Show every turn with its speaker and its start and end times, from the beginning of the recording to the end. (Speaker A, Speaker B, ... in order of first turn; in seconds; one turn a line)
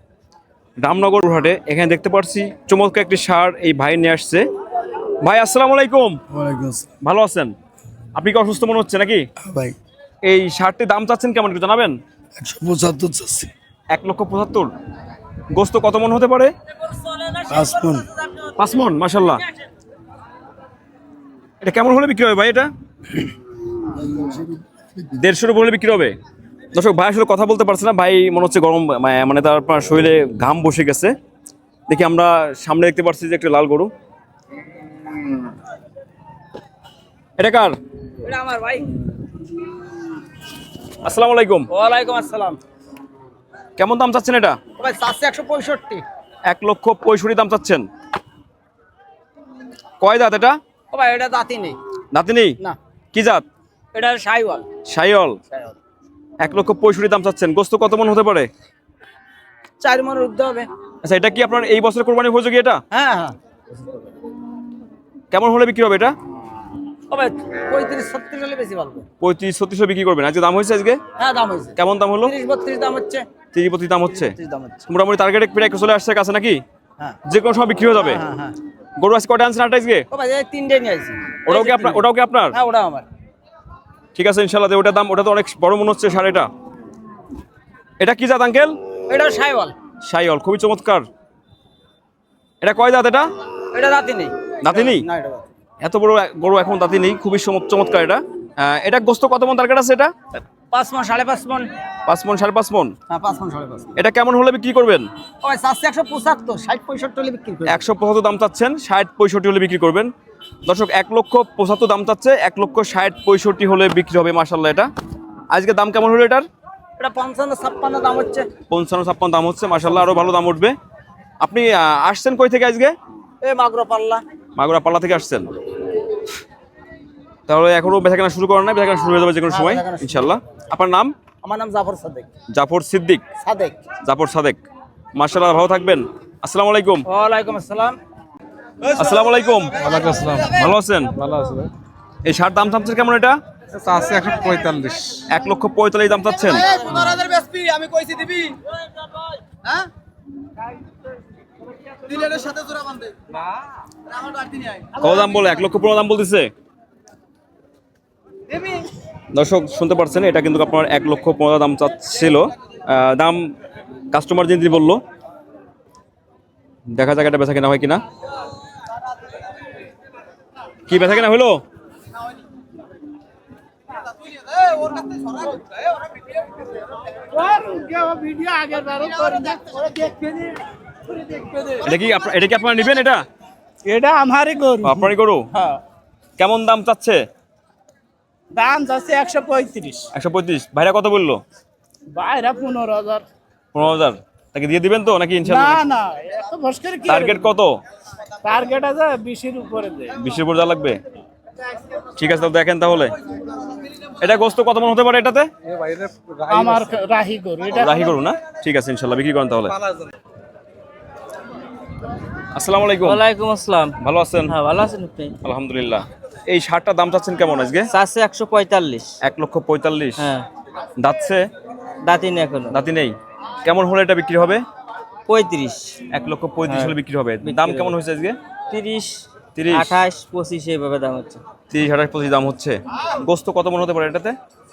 Speaker A: 0.8-4.4
Speaker A: 5.2-6.2
Speaker B: 6.3-6.9
Speaker A: 7.0-7.5
Speaker A: 8.1-9.2
Speaker B: 9.4-9.8
Speaker A: 10.2-11.9
Speaker B: 12.4-13.5
Speaker A: 13.9-14.7
Speaker A: 15.5-16.5
Speaker B: 17.4-18.1
Speaker A: 18.4-19.4
Speaker A: 21.6-22.7
Speaker B: 24.1-24.5
Speaker A: 25.2-26.1
Speaker A: 26.7-31.1
Speaker A: 31.9-33.9
Speaker A: 37.4-37.8
Speaker C: 38.2-39.0
Speaker A: 41.0-41.7
Speaker C: 41.7-42.6
Speaker A: 43.8-44.6
Speaker C: 44.8-46.0
Speaker A: 46.5-47.9
Speaker A: 50.0-50.6
Speaker C: 50.9-51.8
Speaker A: 52.1-52.6
Speaker A: 53.1-53.4
Speaker C: 53.9-54.7
Speaker A: 54.9-55.4
Speaker C: 55.5-55.8
Speaker A: 56.4-58.5
Speaker C: 59.8-60.7
Speaker A: 61.0-62.8
Speaker C: 62.9-63.4
Speaker A: 65.3-66.1
Speaker C: 67.1-69.0
Speaker A: 69.2-71.0
Speaker C: 71.2-73.2
Speaker A: 71.8-72.3
Speaker A: 73.5-74.3
Speaker C: 74.1-74.8
Speaker A: 74.9-76.6
Speaker A: 77.2-78.2
Speaker C: 77.9-78.5
Speaker A: 79.0-80.0
Speaker C: 80.1-83.0
Speaker A: 81.5-82.5
Speaker A: 84.1-86.5
Speaker A: 88.0-88.8
Speaker C: 89.1-89.7
Speaker A: 90.0-91.0
Speaker A: 92.6-93.3
Speaker C: 93.7-95.5
Speaker A: 94.6-95.0
Speaker A: 95.8-100.1
Speaker C: 100.7-101.7
Speaker A: 102.0-102.9
Speaker C: 103.1-104.0
Speaker A: 104.0-105.1
Speaker C: 105.4-107.8
Speaker A: 107.7-110.1
Speaker A: 110.7-114.9
Speaker A: 115.5-116.5
Speaker C: 117.0-118.5
Speaker A: 118.7-120.7
Speaker A: 121.4-122.9
Speaker C: 123.4-124.2
Speaker A: 124.5-125.5
Speaker A: 127.5-131.1
Speaker C: 129.5-130.3
Speaker C: 131.4-132.3
Speaker A: 132.5-133.2
Speaker C: 133.4-133.8
Speaker A: 134.0-134.6
Speaker A: 135.1-137.1
Speaker C: 137.1-138.0
Speaker A: 138.9-141.2
Speaker D: 139.8-140.5
Speaker D: 141.2-141.7
Speaker A: 142.2-143.4
Speaker D: 143.7-145.2
Speaker A: 145.2-146.7
Speaker C: 146.4-148.6
Speaker C: 149.6-149.9
Speaker C: 152.0-153.1
Speaker C: 154.3-154.9
Speaker A: 155.0-156.5
Speaker A: 159.3-163.5
Speaker A: 164.1-165.0
Speaker A: 166.9-168.0
Speaker A: 170.9-171.6
Speaker E: 174.6-175.3
Speaker E: 177.2-180.6
Speaker E: 181.1-181.8
Speaker A: 181.8-183.2
Speaker E: 183.8-185.1
Speaker A: 184.8-185.5
Speaker A: 186.4-187.2
Speaker E: 188.5-190.1
Speaker A: 190.1-191.4
Speaker E: 192.1-193.2
Speaker A: 193.7-195.8
Speaker E: 195.4-197.5
Speaker A: 197.1-197.7
Speaker E: 198.4-200.2
Speaker A: 200.2-201.0
Speaker A: 202.2-203.1
Speaker A: 204.2-205.5
Speaker D: 205.7-206.9
Speaker E: 206.5-208.2
Speaker A: 207.7-209.8
Speaker A: 212.5-213.2
Speaker F: 213.0-213.9
Speaker A: 214.0-214.5
Speaker F: 214.4-215.3
Speaker A: 215.4-217.9
Speaker F: 217.9-219.1
Speaker A: 219.2-220.2
Speaker F: 220.2-220.4
Speaker A: 221.0-221.4
Speaker F: 222.0-222.8
Speaker A: 222.7-224.6
Speaker F: 225.3-225.9
Speaker A: 226.1-228.3
Speaker F: 226.7-227.9
Speaker F: 228.7-231.4
Speaker A: 229.6-229.9
Speaker A: 231.7-234.3